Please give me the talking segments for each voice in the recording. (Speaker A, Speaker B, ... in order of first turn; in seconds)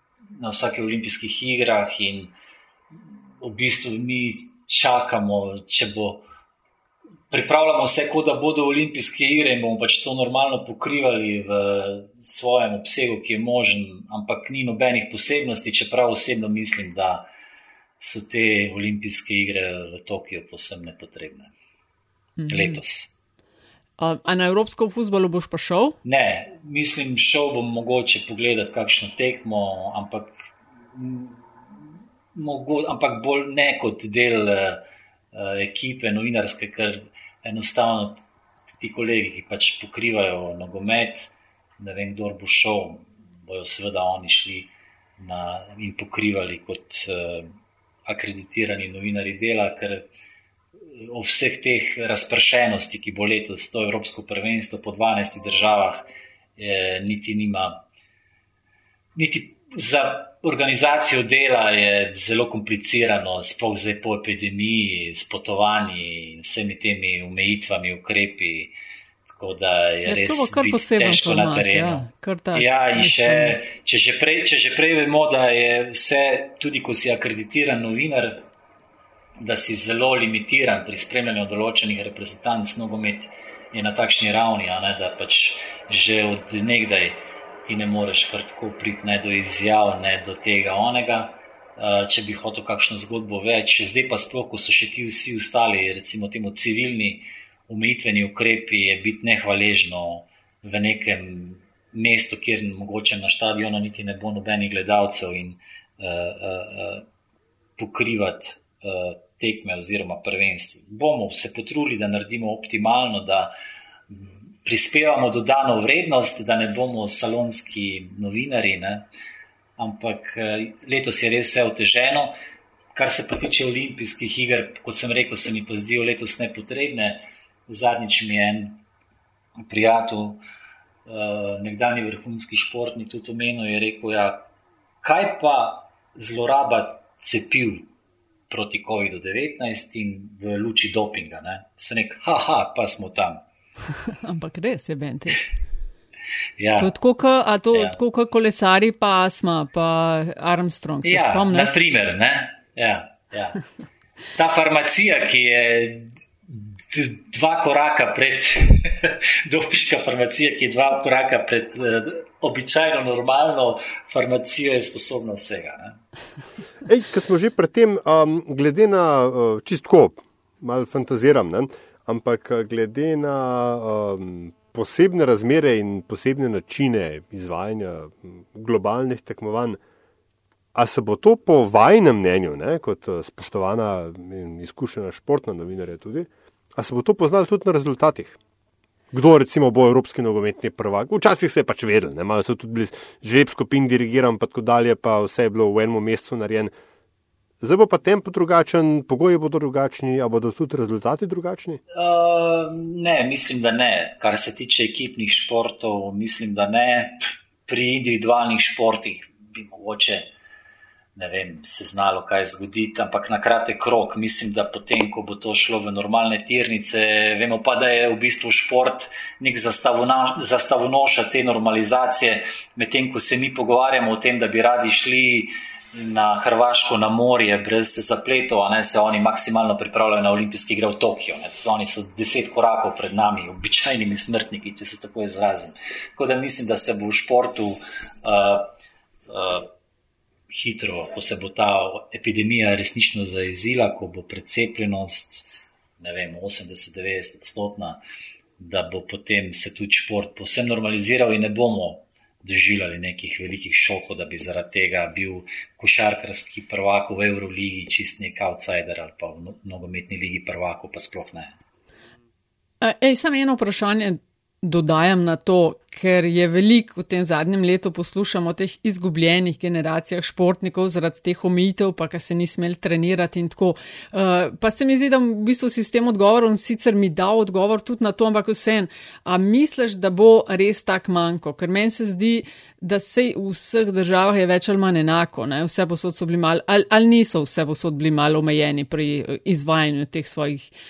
Speaker A: 0.4-2.3, 3.4-6.2, 7.3-17.3, 18.0-21.5, 22.5-23.1, 26.0-31.8, 32.3-38.2, 38.8-47.5, 48.0-50.1, 51.0-57.8, 59.1-68.7, 69.3-78.4, 79.4-107.0, 107.8-113.5, 114.1-119.1, 119.8-122.3, 122.9-128.8, 129.6-130.4, 131.1-134.5, 135.0-137.9, 138.5-143.4, 146.6-146.9, 151.0-153.6, 154.3-166.0, 201.9-210.3, 211.2-238.7, 239.3-239.7, 240.5-245.4, 246.0-248.0, 248.6-261.6
Speaker B: 22.4-22.8, 24.0-26.0, 70.1-73.6, 144.1-145.5, 146.8-151.7, 262.8-290.7
Speaker C: 166.8-179.8, 180.7-188.4, 189.1-196.7, 197.6-201.8